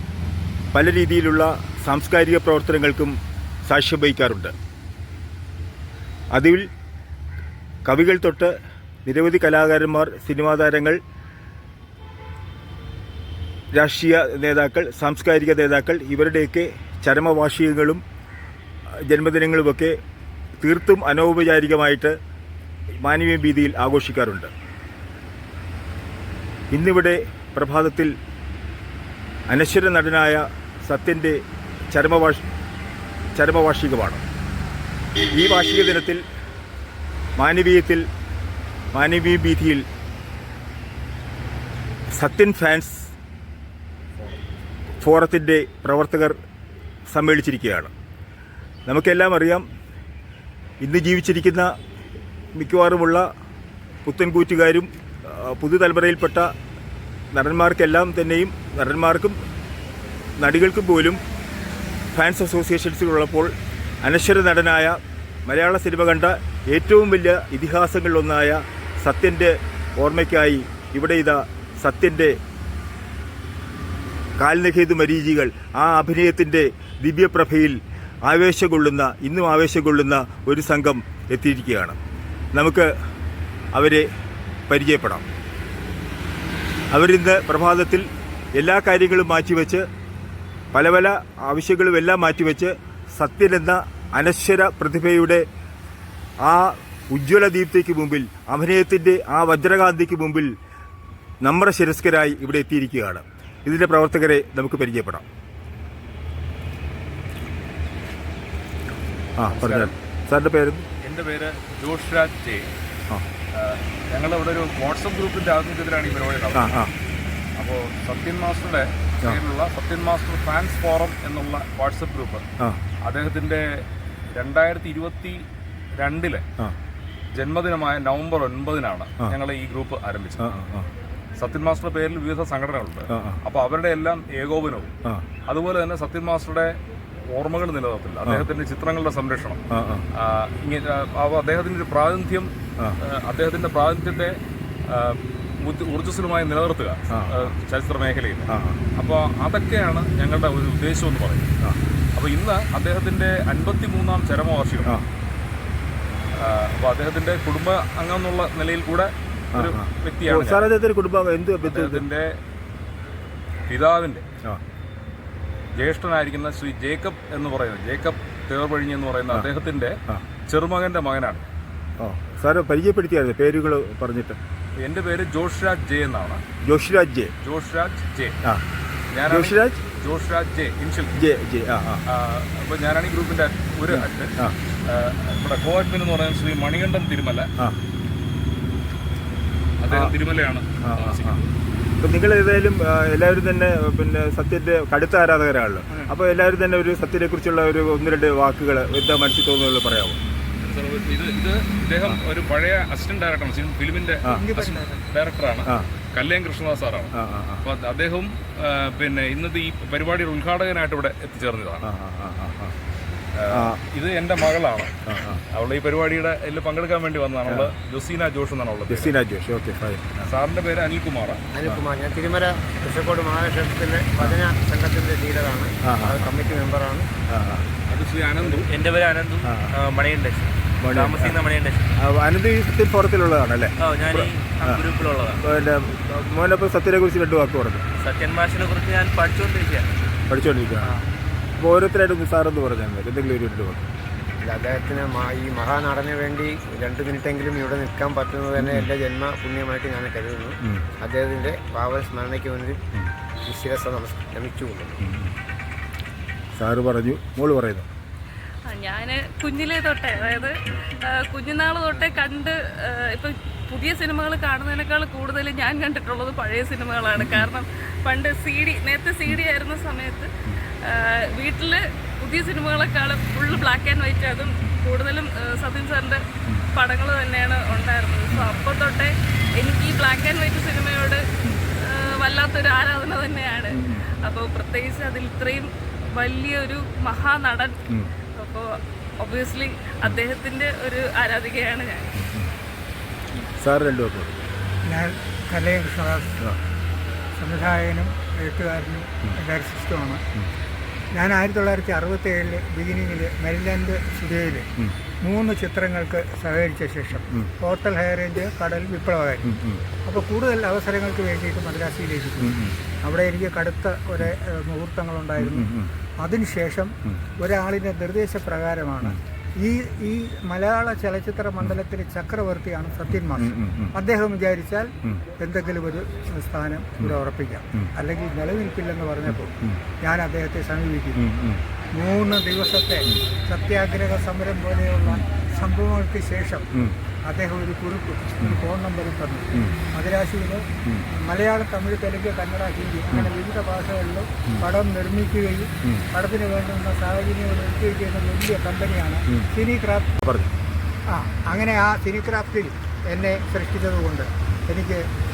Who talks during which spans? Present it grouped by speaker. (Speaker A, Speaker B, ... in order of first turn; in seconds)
Speaker A: 0.7-3.1, 3.6-4.5, 6.3-6.7, 7.8-11.0, 13.7-18.0, 19.1-19.9, 20.6-22.1, 23.0-24.5, 26.7-28.1, 29.5-31.4, 31.9-32.5, 33.3-34.2, 35.3-36.2, 37.4-38.0, 38.9-39.8, 42.1-43.1, 45.0-46.3, 47.1-47.9, 48.9-49.6, 50.8-51.7, 52.5-53.2, 54.0-56.5, 57.3-59.4, 60.4-61.2, 62.1-63.5, 64.0-72.3, 74.4-82.0, 82.5-82.9, 83.7-84.0, 84.7-85.2, 86.9-89.8, 90.7-95.4, 96.4-100.5, 101.4-105.2, 109.4-110.8, 116.5-116.9, 130.4-130.9, 133.1-133.4, 139.7-140.1, 147.1-147.5, 148.5-148.8, 159.5-162.1, 172.0-174.4, 176.6-177.3, 179.3-179.8, 181.1-182.0, 183.9-184.6, 190.8-191.4, 192.0-200.2, 207.1-207.7, 211.8-212.7, 213.5-213.8, 215.1-215.4, 217.5-217.7, 218.9-220.3, 225.8-226.3, 227.3-227.7, 229.4-229.8, 230.8-234.8, 235.4-237.8, 240.3-240.9, 241.6-243.9, 248.6-248.9, 255.0-255.3, 256.6-257.9, 267.2-267.5, 278.3-278.6, 283.7-284.0, 292.2-292.5, 293.6-294.4, 309.5-309.8, 312.4-312.8, 315.4-315.9, 323.3-323.9, 329.3-329.8, 331.2-331.6, 350.2-350.5
Speaker B: 109.5-109.9, 111.0-112.7, 113.5-116.8, 117.6-122.4, 123.0-123.8, 124.3-125.4, 126.0-126.4, 127.3-130.4, 131.4-134.9, 135.5-136.8, 137.3-139.6, 140.1-142.5, 143.0-144.4, 144.9-151.5, 152.1-155.0, 156.3-160.6, 161.6-162.4, 163.7-164.2, 165.7-171.4, 174.8-176.4, 177.4-178.4, 179.1-181.2, 182.1-184.3, 184.8-187.5, 189.8-191.4, 200.6-211.9, 213.3-214.9, 215.5-219.1, 220.2-221.4, 227.9-228.7
Speaker C: 204.2-204.9, 294.9-296.4, 297.4-300.2, 301.1-304.7, 305.2-309.5, 310.0-315.7, 316.2-331.2, 331.9-336.7, 337.2-350.1, 351.1-355.1
Speaker D: 221.5-227.1, 244.4-252.8, 253.4-255.0
Speaker E: 228.5-231.9, 233.8-235.4, 238.0-239.9
Speaker F: 258.7-270.3, 270.8-276.2, 276.7-281.2, 281.8-287.8, 288.4-288.6, 289.2-292.2